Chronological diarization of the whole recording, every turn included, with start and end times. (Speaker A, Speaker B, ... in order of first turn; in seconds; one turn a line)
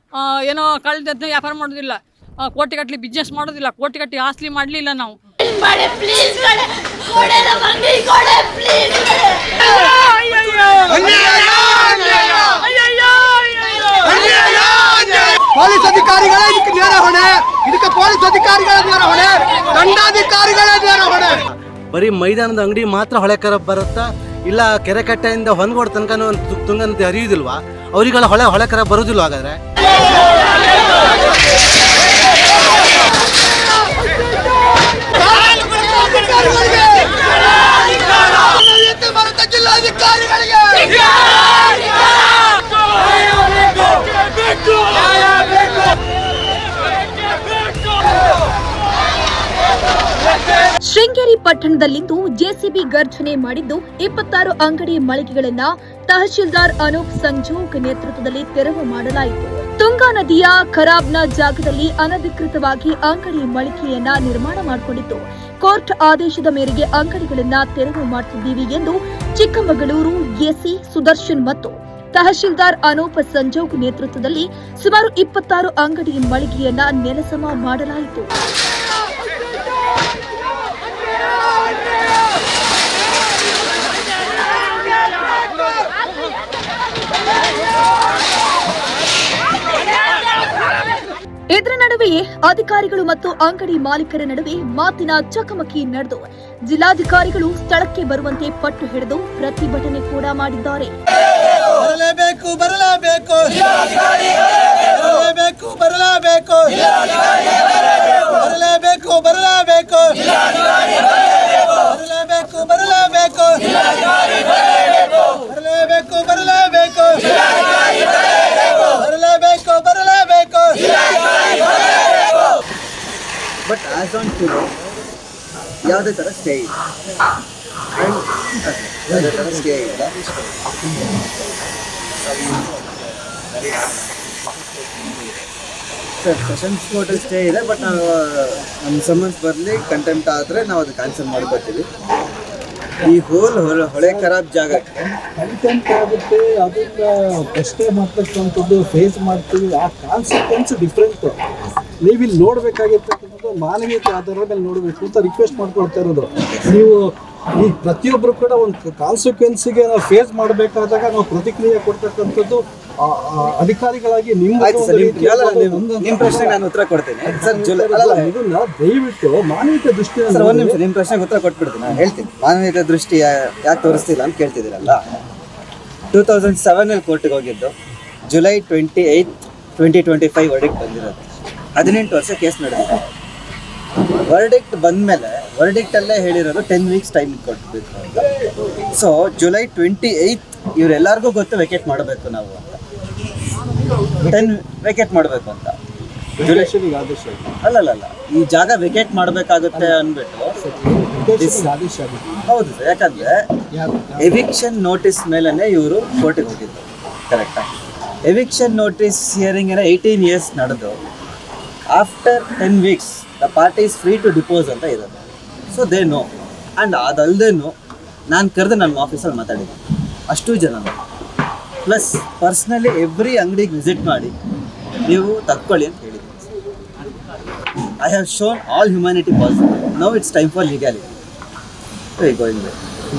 Speaker A: 0.2-5.2
Speaker B: 10.9-11.2
Speaker B: 14.0-21.4
Speaker C: 21.9-29.6
Speaker B: 40.0-40.5
Speaker D: 50.9-78.3
Speaker D: 91.5-100.9
Speaker E: 101.7-122.3
Speaker E: 123.7-124.7
Speaker E: 125.8-126.8
Speaker E: 128.0-130.7
Speaker E: 133.7-134.0
Speaker E: 136.2-141.9
Speaker E: 143.0-144.9
Speaker F: 145.3-151.4
Speaker F: 152.0-166.6
Speaker E: 156.4-156.7
Speaker E: 164.6-168.3
Speaker F: 167.3-170.8
Speaker E: 170.3-175.0
Speaker E: 176.1-177.7
Speaker E: 178.3-183.0
Speaker E: 184.2-188.3
Speaker E: 188.9-192.8
Speaker E: 194.2-195.8
Speaker E: 196.4-196.7
Speaker F: 196.5-197.4
Speaker E: 197.6-200.6
Speaker F: 200.6-202.2
Speaker E: 201.4-201.7
Speaker E: 202.5-203.5
Speaker F: 203.7-204.1
Speaker E: 204.2-207.7
Speaker E: 208.2-211.0
Speaker E: 211.9-217.7
Speaker E: 218.3-219.8
Speaker E: 220.3-221.0
Speaker E: 221.9-224.3
Speaker E: 225.1-226.5
Speaker E: 228.0-231.1
Speaker E: 232.2-232.8